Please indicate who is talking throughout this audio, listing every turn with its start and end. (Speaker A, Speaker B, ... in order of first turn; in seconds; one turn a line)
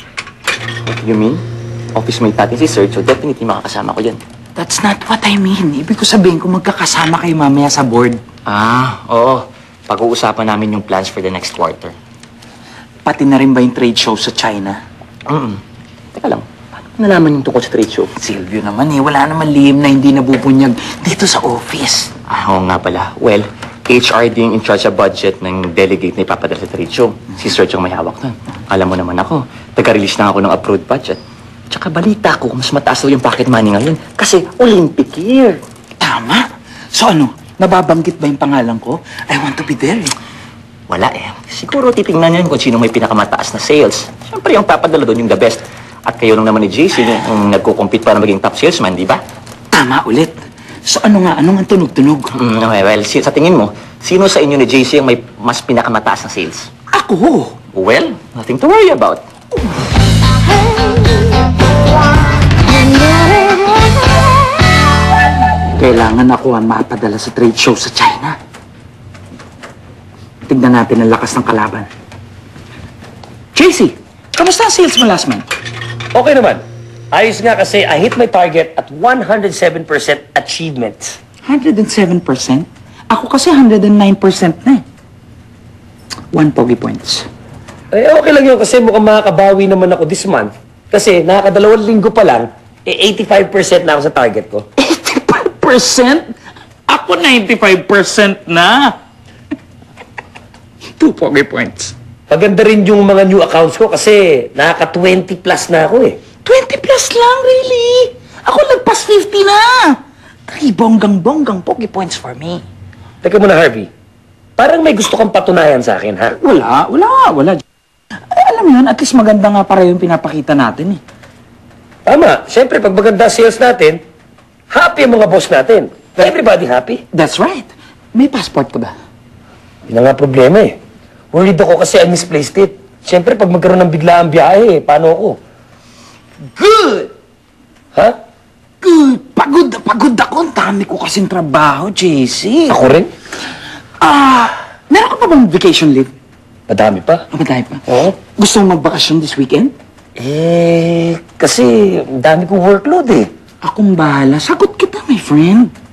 Speaker A: 0.8-1.4
Speaker A: 1.9-4.2
Speaker B: 4.5-8.2
Speaker A: 8.4-11.9
Speaker B: 13.0-14.8
Speaker A: 15.3-15.6
Speaker A: 16.1-18.1
Speaker B: 18.1-22.1
Speaker A: 22.3-31.2
Speaker A: 31.7-35.6
Speaker B: 36.0-40.1
Speaker A: 40.9-49.2
Speaker B: 49.7-52.3
Speaker A: 52.3-56.7
Speaker B: 56.9-57.6
Speaker A: 57.7-59.2
Speaker B: 65.7-68.3
Speaker B: 70.5-71.9
Speaker B: 73.5-75.4
Speaker C: 76.1-76.6
Speaker C: 77.1-81.2
Speaker B: 81.4-84.8
Speaker B: 86.3-87.3
Speaker C: 87.9-94.6
Speaker B: 94.8-96.3
Speaker B: 96.9-99.0
Speaker B: 101.0-101.9
Speaker C: 102.3-106.2
Speaker B: 106.4-110.0
Speaker B: 110.5-112.6
Speaker C: 113.2-113.9
Speaker C: 114.6-116.4
Speaker B: 116.4-117.6
Speaker B: 118.3-121.0
Speaker C: 122.0-124.0
Speaker C: 124.7-127.0
Speaker B: 127.1-128.9
Speaker C: 129.9-130.8
Speaker C: 131.3-135.4
Speaker B: 136.6-137.1
Speaker B: 138.8-142.8
Speaker C: 142.7-143.1
Speaker B: 144.0-146.1
Speaker C: 146.7-147.2
Speaker B: 147.3-149.7
Speaker C: 147.9-148.1
Speaker C: 150.2-153.3
Speaker B: 153.6-155.7